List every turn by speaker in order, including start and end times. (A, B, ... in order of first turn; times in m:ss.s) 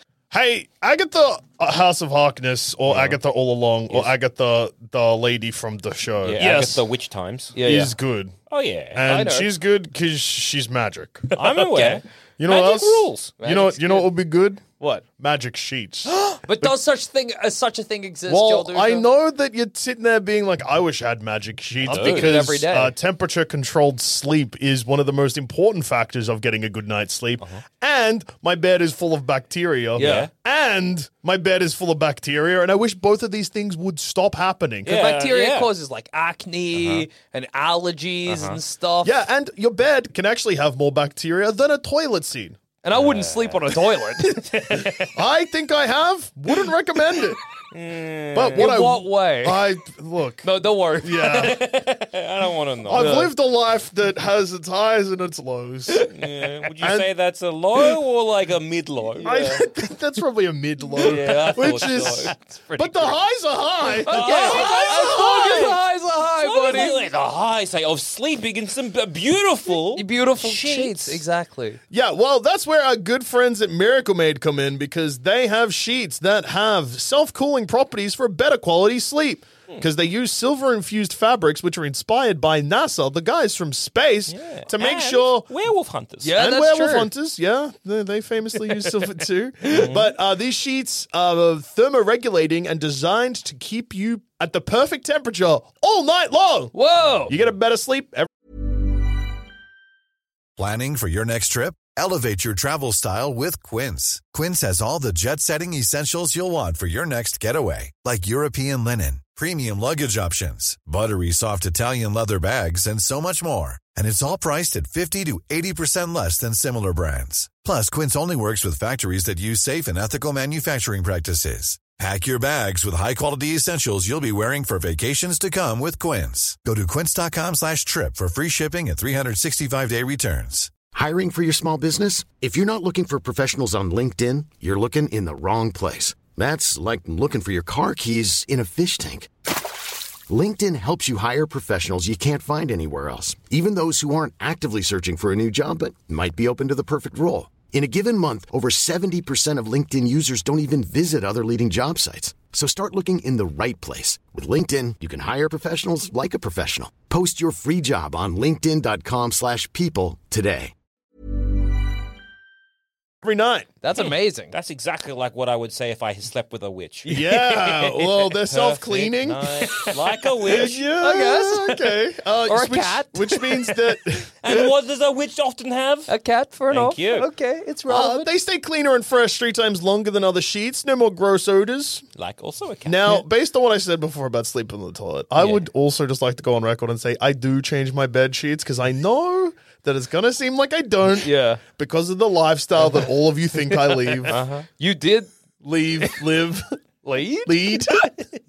0:00.3-0:06.4 A
0:02.9-0:03.2 B
0:06.2-0:07.6 B
0:06.4-0:06.8 C
0:07.6-0:07.9 C
0:07.6-0:08.3 A
0:08.5-0:09.0 B
0:08.9-0:11.3 A
0:09.0-0:09.5 C
0:11.3-0:13.3 B
0:11.5-0:12.0 C
0:12.4-0:16.7 A
0:13.3-0:14.1 C
0:16.2-0:19.1 C
0:18.3-0:35.0 A
0:21.8-0:22.4 B
0:21.8-0:22.9 C
0:30.0-0:30.3 C
0:30.0-0:30.3 B
0:34.8-0:35.7 B
0:34.9-0:39.2 C
0:36.7-0:37.0 B
0:38.2-0:38.6 B
0:39.0-0:42.6 A
0:42.8-0:44.8 C
0:42.9-0:43.8 B
0:44.5-0:45.1 B
0:44.7-0:47.4 A
0:47.7-0:48.7 B
0:48.3-0:50.5 A
0:48.6-0:49.7 C
0:50.4-0:51.6 C
0:51.0-0:51.6 A
0:51.3-0:53.2 B
0:52.9-0:56.1 A
0:52.9-0:53.3 C
0:56.1-0:59.6 B
0:56.8-0:57.1 A
0:59.2-0:59.6 C
0:59.2-1:05.7 A
1:00.9-1:03.1 C
1:01.0-1:03.1 B
1:04.0-1:07.0 C
1:04.0-1:05.8 B
1:06.4-1:11.2 B
1:10.0-1:11.8 C
1:11.9-1:25.5 A
1:24.3-1:26.4 B
1:26.2-1:27.1 C
1:26.4-1:36.7 A
1:28.6-1:28.9 C
1:29.7-1:30.0 B
1:36.7-1:37.3 C
1:37.3-1:38.3 A
1:40.6-2:10.7 D
2:10.8-2:19.3 E
2:20.3-2:40.7 E
2:43.2-2:43.7 A
2:43.8-2:44.5 C
2:43.9-2:50.9 B
2:47.0-2:49.8 A
2:49.7-2:49.9 C
2:50.4-2:54.3 A
2:50.6-2:53.9 C
2:54.4-2:56.1 B
2:56.1-2:58.3 C
2:56.7-2:57.3 B
2:57.9-3:02.0 A
3:02.2-3:03.2 B
3:02.8-3:14.4 A
3:11.2-3:11.6 C
3:12.8-3:13.0 C
3:13.6-3:15.3 C
3:14.3-3:14.7 B
3:15.6-3:16.8 A
3:16.0-3:16.5 C
3:17.0-3:18.1 C
3:17.4-3:18.1 A